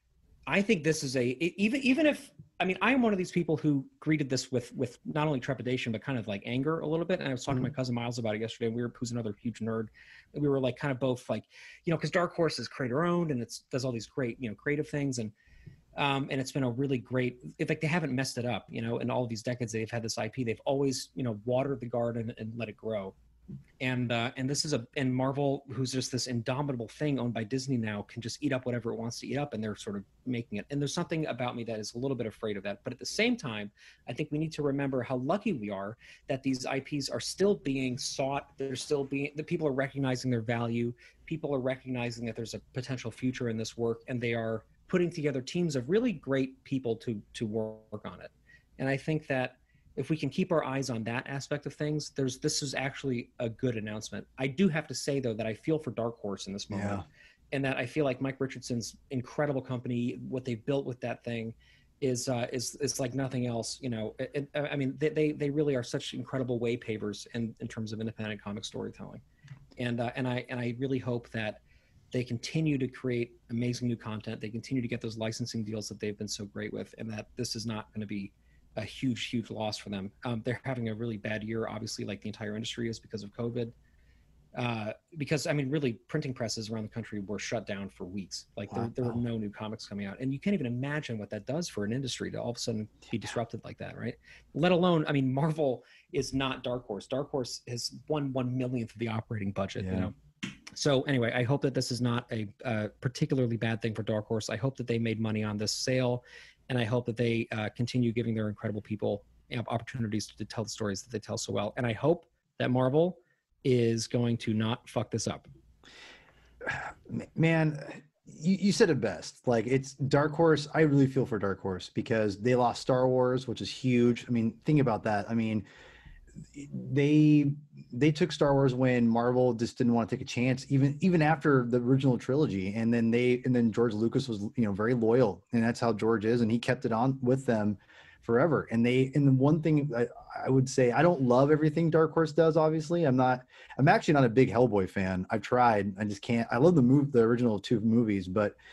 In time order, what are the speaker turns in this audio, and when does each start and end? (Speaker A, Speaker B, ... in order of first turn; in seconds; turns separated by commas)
Speaker A: 0.5-15.3, Speaker A: 16.0-23.1, Speaker A: 23.8-69.2, Speaker B: 56.7-57.0, Speaker A: 69.8-71.6, Speaker A: 72.1-83.7, Speaker A: 84.6-100.1, Speaker B: 88.7-89.2, Speaker B: 99.8-100.1, Speaker A: 100.7-115.5, Speaker B: 116.6-125.7, Speaker B: 126.5-148.6